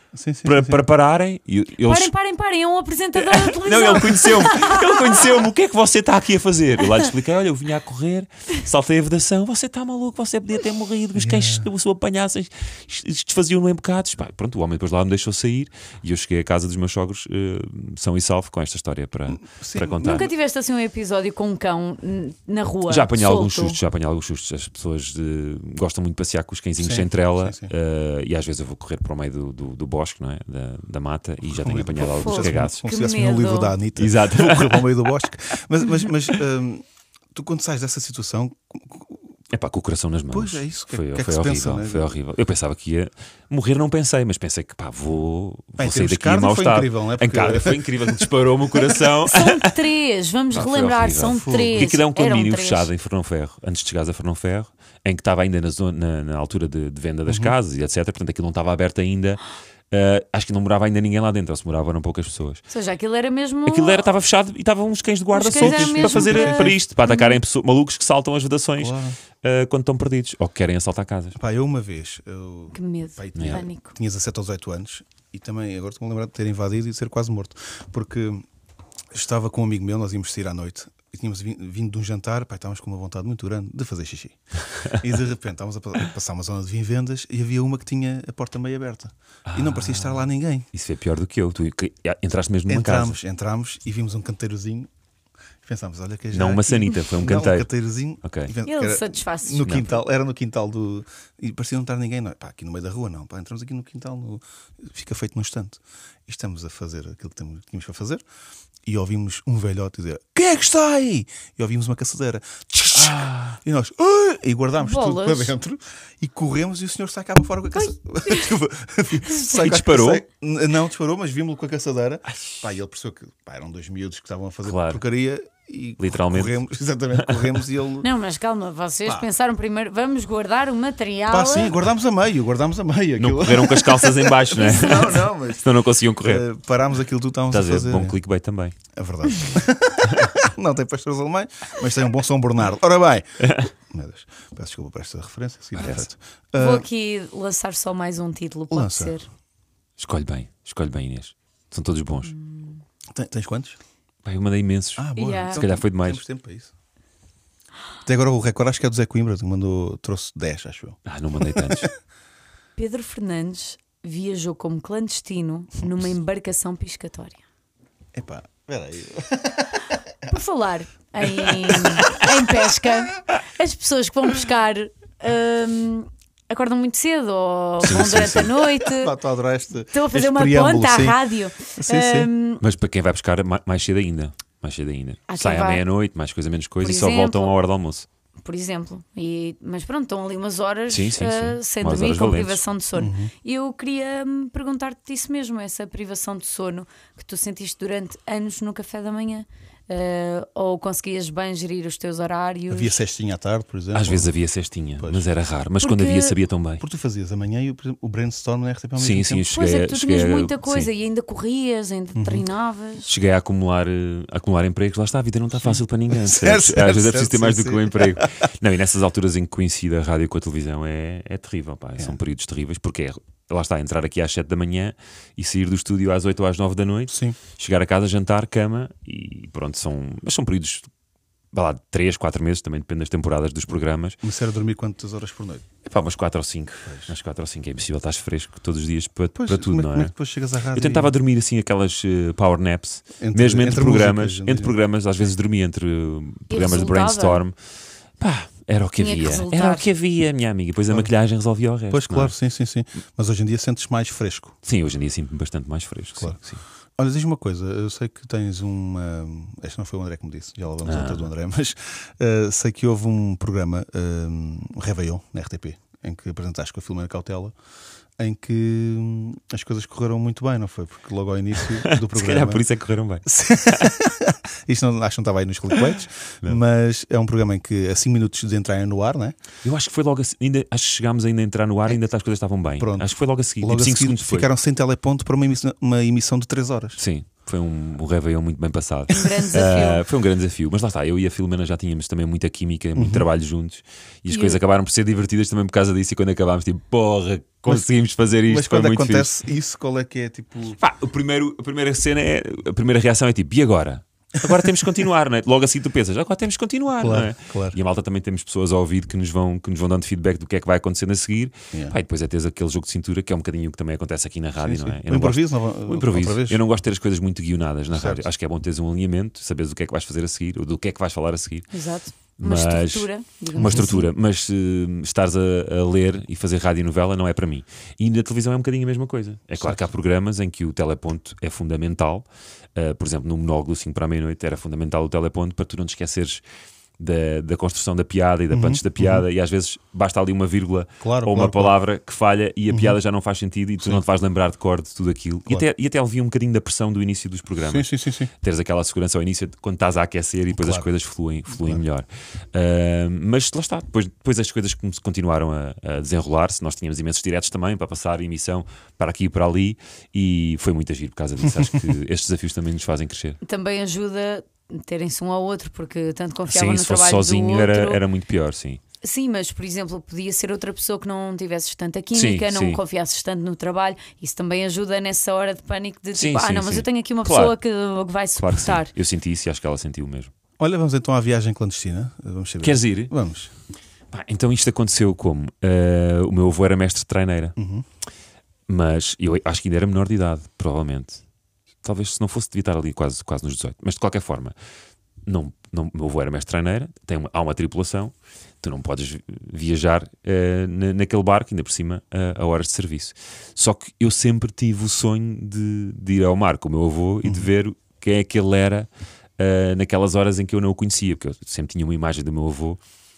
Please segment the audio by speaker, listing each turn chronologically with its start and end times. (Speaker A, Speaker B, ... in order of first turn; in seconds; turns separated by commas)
Speaker A: 0.1-0.8, Speaker B: 0.5-2.1, Speaker C: 1.8-5.2, Speaker B: 3.1-20.3, Speaker A: 11.2-11.7, Speaker A: 19.3-20.1, Speaker C: 20.0-23.8, Speaker B: 22.9-32.8, Speaker A: 26.8-27.7, Speaker A: 31.6-39.2, Speaker C: 32.0-33.8, Speaker B: 34.0-35.1, Speaker B: 39.5-49.8, Speaker A: 40.3-42.1, Speaker A: 45.8-48.3, Speaker C: 49.2-52.9, Speaker B: 50.5-62.6, Speaker A: 51.3-51.9, Speaker A: 57.3-57.5, Speaker C: 62.7-64.1, Speaker B: 63.7-71.4, Speaker C: 65.3-67.4, Speaker A: 65.6-66.8, Speaker A: 68.8-69.2, Speaker A: 71.4-78.5, Speaker C: 72.7-73.9, Speaker B: 73.4-73.6, Speaker A: 79.1-90.7, Speaker B: 89.5-93.2, Speaker A: 92.7-94.9, Speaker A: 95.6-108.2, Speaker B: 96.3-97.7, Speaker B: 98.2-98.5, Speaker C: 98.7-99.8, Speaker B: 99.6-100.0, Speaker A: 108.9-128.1, Speaker B: 112.9-113.6, Speaker C: 114.8-115.5, Speaker C: 117.8-118.5, Speaker C: 119.2-119.6, Speaker B: 119.5-120.2, Speaker B: 122.3-122.6, Speaker B: 124.7-125.0, Speaker B: 126.0-126.6, Speaker B: 127.2-127.5, Speaker C: 128.0-131.8, Speaker A: 131.3-138.2, Speaker B: 133.2-136.5, Speaker C: 134.6-135.2, Speaker B: 137.5-138.7, Speaker A: 138.9-146.9, Speaker B: 143.4-143.7, Speaker B: 145.8-146.1, Speaker C: 146.6-149.3, Speaker A: 148.7-149.2, Speaker B: 150.0-152.3, Speaker C: 152.4-152.7, Speaker A: 153.1-153.8, Speaker B: 154.2-156.2, Speaker A: 155.0-156.7, Speaker C: 155.2-155.6, Speaker A: 158.1-161.9, Speaker B: 161.1-161.9, Speaker C: 162.8-167.4, Speaker A: 168.1-170.0, Speaker C: 170.3-179.2, Speaker B: 177.8-178.5, Speaker A: 178.2-181.2, Speaker C: 179.9-182.6, Speaker A: 181.7-182.3, Speaker B: 182.6-188.1, Speaker C: 185.3-185.8, Speaker C: 186.8-187.5, Speaker C: 188.4-203.0, Speaker B: 190.9-192.6, Speaker A: 193.0-193.3, Speaker A: 202.7-204.3, Speaker B: 203.9-206.8, Speaker A: 205.0-205.3, Speaker C: 205.8-206.4, Speaker A: 206.8-209.5, Speaker B: 209.0-210.9, Speaker C: 209.5-213.1, Speaker A: 212.2-212.4, Speaker B: 213.1-230.8, Speaker A: 215.6-218.4, Speaker A: 227.1-227.4, Speaker B: 231.5-234.2, Speaker A: 234.2-235.7, Speaker B: 235.8-240.1, Speaker A: 236.9-237.1, Speaker A: 239.3-241.1, Speaker B: 240.7-247.6, Speaker A: 243.2-244.8, Speaker C: 246.5-247.4, Speaker B: 248.2-252.3, Speaker C: 249.0-249.9, Speaker A: 251.9-254.5, Speaker B: 254.7-256.6, Speaker A: 257.0-267.5, Speaker B: 260.8-261.3, Speaker A: 268.2-272.6, Speaker B: 271.9-273.3, Speaker A: 273.3-279.4, Speaker B: 279.6-284.5, Speaker A: 282.8-287.0, Speaker B: 287.0-299.3, Speaker C: 289.1-290.0, Speaker A: 293.0-293.3, Speaker C: 294.3-294.6, Speaker A: 298.5-300.8, Speaker B: 300.8-336.4, Speaker A: 307.0-307.8, Speaker A: 314.6-316.6, Speaker A: 317.9-318.3, Speaker C: 321.7-324.1, Speaker A: 323.6-323.9, Speaker A: 329.6-329.8, Speaker B: 337.0-347.9, Speaker A: 338.5-339.3, Speaker A: 341.0-341.8, Speaker A: 342.7-343.0, Speaker A: 347.6-348.3, Speaker B: 348.4-363.4, Speaker A: 350.5-350.9, Speaker A: 351.6-351.8, Speaker C: 363.4-368.0, Speaker B: 366.5-368.8, Speaker C: 369.0-378.9, Speaker B: 372.1-372.8, Speaker B: 376.1-377.6, Speaker B: 378.4-380.3, Speaker A: 380.6-383.5, Speaker B: 382.6-383.1, Speaker B: 384.1-387.6, Speaker A: 387.6-387.9, Speaker B: 388.7-391.2, Speaker B: 391.8-394.6, Speaker B: 395.3-412.8, Speaker A: 407.2-407.5